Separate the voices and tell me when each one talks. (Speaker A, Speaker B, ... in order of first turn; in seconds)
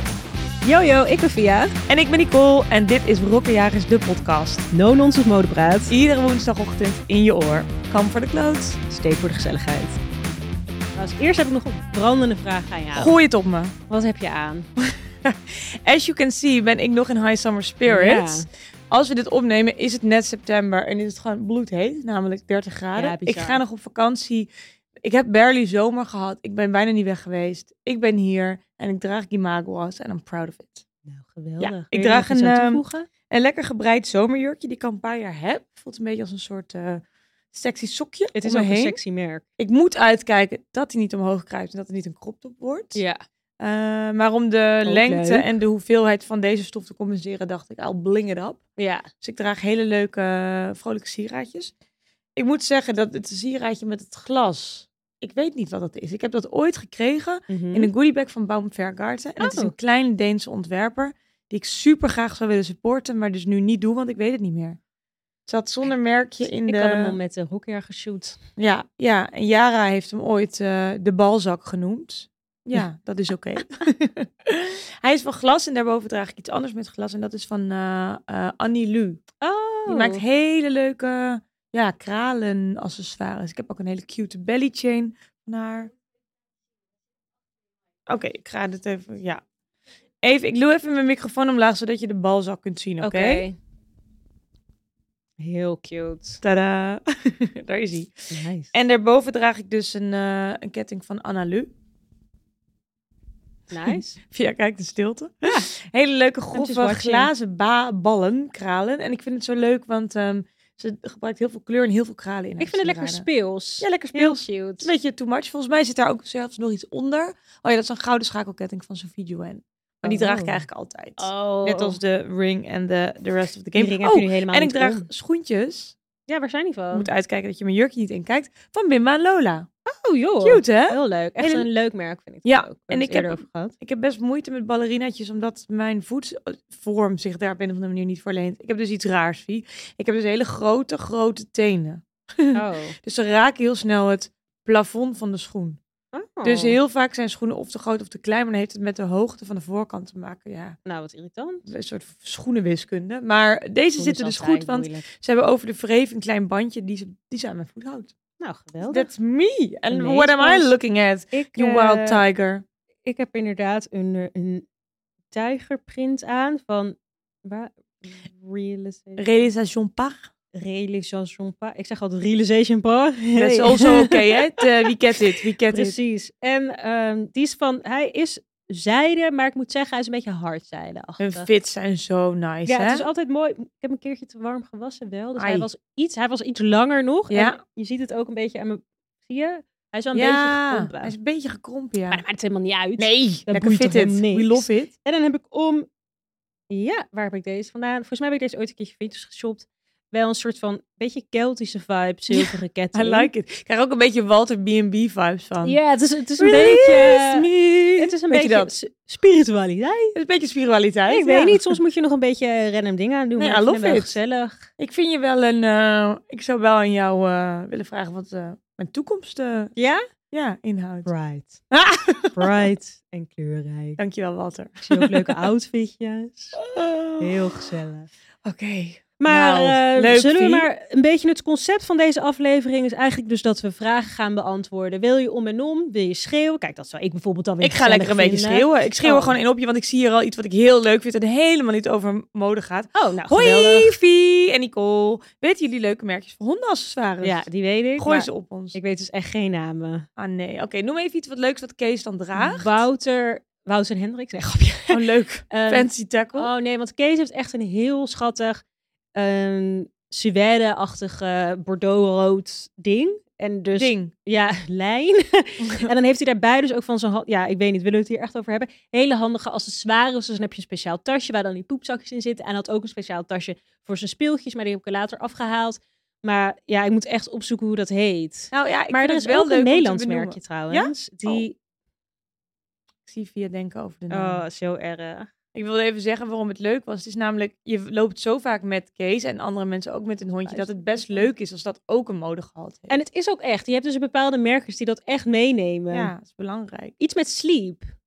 Speaker A: 0.6-1.8, 4.7-5.9, 8.9-10.0, 11.0-13.2, 13.9-14.7, 17.9-18.5, 22.9-23.6, 31.1-33.1, 38.3-39.5, 43.0-43.2, 44.9-45.5, 48.8-49.1, 57.5-57.9, 59.4-59.7, 66.5-68.4, 79.4-80.2, 93.0-93.6, 95.4-96.4, 98.3-98.7, 103.7-104.2, 106.5-107.3, 112.6-114.9, 120.0-120.7, 121.2-122.0, 123.8-125.1, 126.3-127.1, 129.9-133.7, 142.5-143.0, 146.1-146.8, 150.8-151.7, 154.0-155.1, 158.4-159.1, 159.9-160.7, 161.3-162.2, 163.1-164.7, 165.3-169.2, 170.5-174.6, 175.7-181.5, 182.7-191.1, 192.1-195.9, 196.7-203.3, 205.6-207.5, 208.0-210.2, 211.1-214.7, 219.8-220.0, 221.1-221.6, 222.3-224.0, 224.8-226.6, 227.2-228.1, 229.2-239.4, 242.9-244.0, 247.2-250.1, 252.4-258.6, 259.1-281.6, 284.1-285.3, 290.5-291.3, 292.9-296.1, 297.0-297.9
Speaker B: 1.9-4.7, 5.9-8.8, 12.9-13.8, 15.2-24.5, 25.0-30.9, 31.6-39.0, 39.6-43.0, 43.6-48.6, 49.2-51.7, 52.4-64.8, 65.5-67.2, 68.6-79.2, 79.9-85.9, 88.1-89.4, 90.2-93.5, 96.4-101.7, 103.8-113.3, 113.8-126.0, 126.9-129.7, 130.4-131.7, 132.4-145.8, 146.4-150.8, 151.7-158.1, 158.8-162.6, 169.2-170.3, 173.3-176.0, 181.2-183.1, 185.4-185.7, 187.3-187.6, 190.1-192.2, 193.0-194.9, 202.3-205.8, 206.4-208.7, 210.2-211.8, 213.4-214.2, 214.8-219.7, 220.3-221.1, 221.7-222.7, 224.0-225.5, 226.6-227.7, 228.4-230.7, 237.6-247.5, 248.0-248.8, 250.2-252.8, 254.9-256.5, 263.8-264.1, 265.6-265.9, 278.5-281.5, 283.1-284.4, 285.6-293.0, 295.9-296.9